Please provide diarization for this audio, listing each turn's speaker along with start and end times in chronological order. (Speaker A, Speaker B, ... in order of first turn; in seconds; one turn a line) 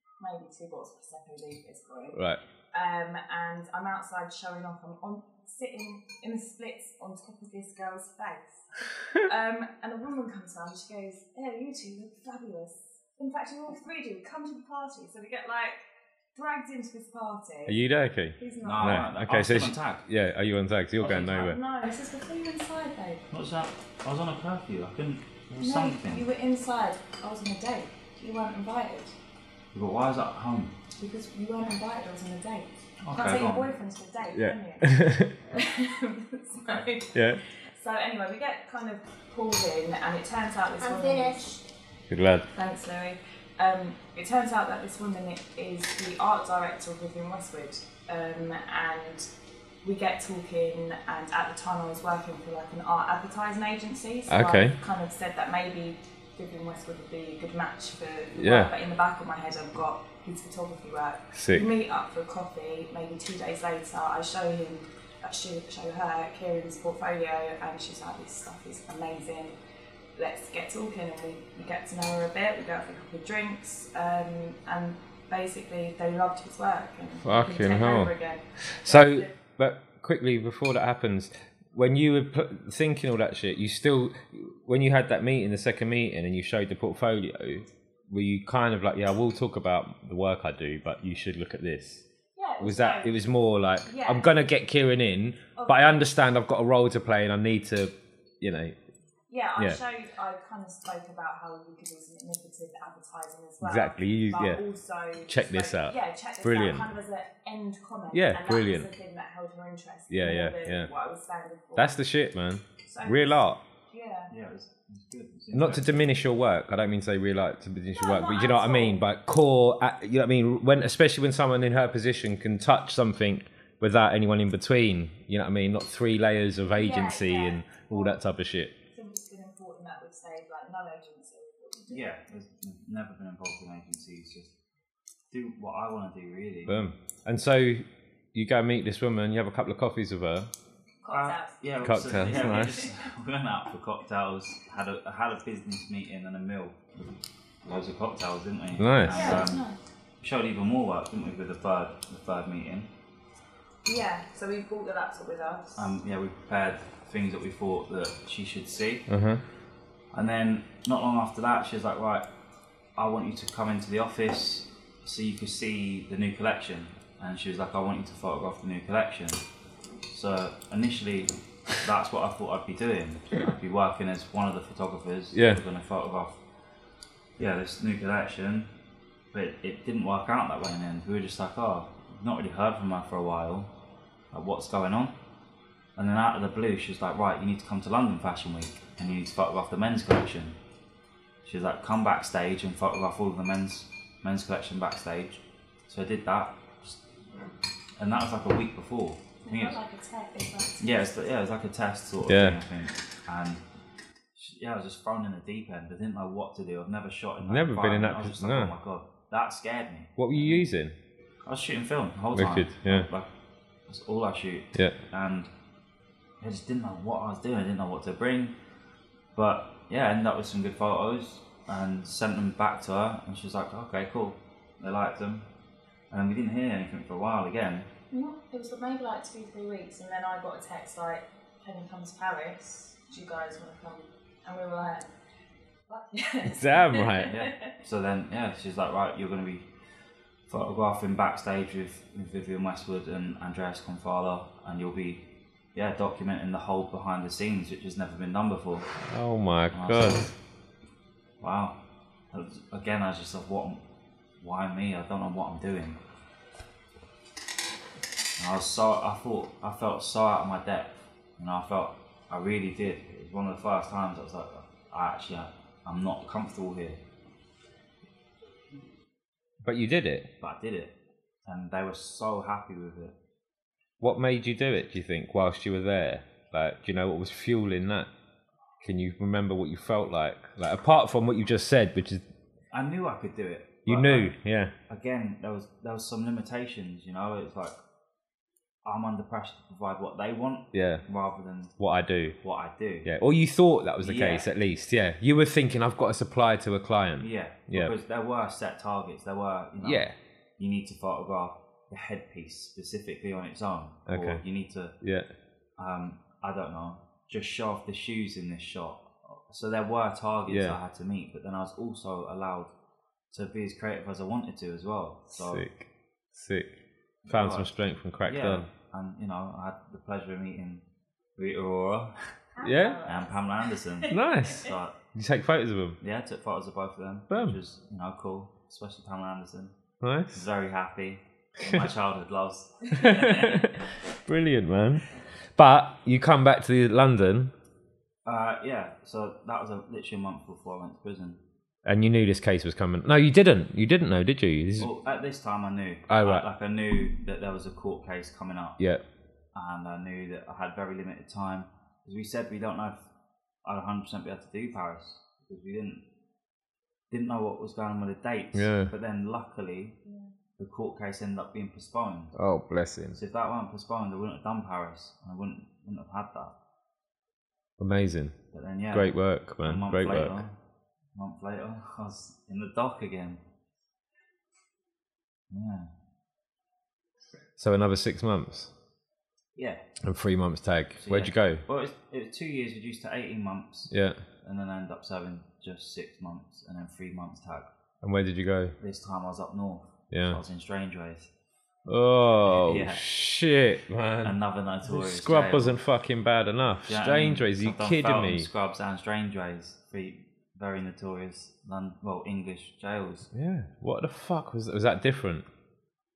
Speaker A: 0.2-15.8
Speaker B: 2.1-2.4
Speaker A: 16.3-17.8
Speaker B: 17.7-21.6
Speaker A: 18.4-19.1
Speaker C: 18.6-20.0
Speaker C: 21.0-21.5
Speaker A: 21.2-23.3
Speaker C: 23.3-26.2
Speaker A: 25.6-29.1
Speaker C: 29.7-30.8
Speaker A: 31.0-41.6
Speaker C: 33.0-33.7
Speaker B: 34.3-35.4
Speaker B: 37.1-37.4
Speaker B: 42.1-42.5
Speaker A: 42.5-49.3
Speaker A: 49.8-69.5
Speaker B: 54.3-54.8
Speaker B: 58.4-58.7
Speaker B: 61.3-61.7
Speaker A: 70.2-79.3
Speaker B: 77.2-92.0
Speaker A: 92.3-93.2
Speaker B: 92.6-98.8
Speaker A: 93.8-94.4
Speaker A: 95.5-96.1
Speaker A: 99.3-112.0
Speaker B: 103.6-104.6
Speaker B: 105.3-106.9
Speaker B: 108.1-108.9
Speaker B: 110.1-110.9
Speaker B: 111.8-113.6
Speaker A: 112.8-114.3
Speaker C: 114.3-116.0
Speaker B: 115.5-128.7
Speaker A: 117.9-119.0
Speaker A: 126.8-128.2
Speaker A: 128.9-132.1
Speaker C: 131.9-134.6
Speaker C: 135.3-136.8
Speaker B: 136.7-140.5
Speaker A: 141.0-141.6
Speaker C: 141.1-149.7
Speaker B: 141.8-142.8
Speaker A: 142.2-142.9
Speaker B: 148.8-149.4
Speaker A: 149.1-149.8
Speaker C: 150.2-152.9
Speaker A: 153.8-155.9
Speaker C: 155.8-159.1
Speaker B: 159.1-159.4
Speaker C: 160.1-162.3
Speaker C: 162.9-169.4
Speaker C: 170.1-176.4
Speaker B: 175.3-175.6
Speaker C: 177.4-178.7
Speaker C: 179.3-183.7
Speaker C: 184.3-185.2
Speaker C: 185.9-190.6
Speaker C: 191.4-197.0
Speaker C: 198.0-199.8
Speaker A: 199.4-201.2
Speaker C: 200.8-203.6
Speaker B: 202.2-202.6
Speaker C: 204.3-210.7
Speaker B: 207.4-208.7
Speaker B: 210.2-210.9
Speaker C: 211.4-213.3
Speaker B: 212.3-213.1
Speaker C: 213.9-215.5
Speaker C: 216.4-218.5
Speaker C: 219.3-225.5
Speaker C: 226.1-227.9
Speaker A: 228.1-235.1
Speaker A: 235.9-237.7
Speaker B: 236.4-237.4
Speaker C: 237.2-239.7
Speaker C: 240.5-248.9
Speaker B: 249.0-250.3
Speaker C: 249.7-250.3
Speaker C: 251.4-251.8
Speaker C: 252.3-253.8
Speaker C: 254.4-256.0
Speaker C: 258.4-267.0
Speaker B: 269.6-270.3
Speaker C: 270.4-273.2
Speaker B: 274.0-278.1
Speaker B: 278.8-282.2
Speaker C: 282.7-284.4
Speaker B: 283.9-284.7
Speaker C: 284.9-287.8
Speaker C: 288.8-291.7
Speaker B: 290.7-291.0
Speaker B: 291.8-292.4
Speaker C: 292.4-293.1
Speaker B: 293.0-297.9
Speaker C: 294.0-294.5
Speaker C: 297.2-300.0
Speaker B: 299.8-300.1
Speaker C: 300.6-304.9
Speaker B: 304.1-304.4
Speaker B: 305.0-305.3
Speaker C: 305.8-312.7
Speaker B: 310.5-310.8
Speaker C: 313.3-315.6
Speaker B: 315.4-316.7
Speaker C: 317.2-317.7
Speaker B: 317.3-318.7
Speaker C: 318.2-320.8
Speaker C: 321.4-322.2
Speaker A: 322.6-324.5
Speaker B: 322.6-323.1
Speaker C: 323.0-324.9
Speaker B: 324.1-326.0
Speaker C: 326.0-329.8
Speaker B: 327.3-327.6
Speaker B: 330.0-330.4
Speaker C: 330.3-333.6
Speaker B: 331.6-331.9
Speaker B: 332.9-337.5
Speaker C: 338.2-341.4
Speaker B: 341.8-344.9
Speaker C: 344.8-348.8
Speaker B: 346.1-346.4
Speaker C: 349.5-353.0
Speaker C: 353.6-356.0
Speaker C: 357.1-359.9
Speaker B: 358.5-358.9
Speaker C: 360.6-362.4
Speaker B: 362.4-363.2
Speaker C: 363.1-366.5
Speaker B: 367.8-368.4
Speaker C: 368.5-370.6
Speaker B: 368.9-370.4
Speaker C: 371.1-373.4
Speaker C: 375.5-375.9
Speaker B: 377.6-378.7
Speaker C: 379.6-379.8
Speaker B: 380.0-381.6
Speaker C: 381.0-387.7
Speaker B: 383.9-384.2
Speaker B: 388.0-388.8
Speaker C: 388.8-391.3
Speaker B: 390.1-390.4
Speaker B: 391.9-398.5
Speaker C: 392.5-393.0
Speaker C: 394.2-395.8
Speaker C: 396.8-403.3
Speaker B: 403.3-405.4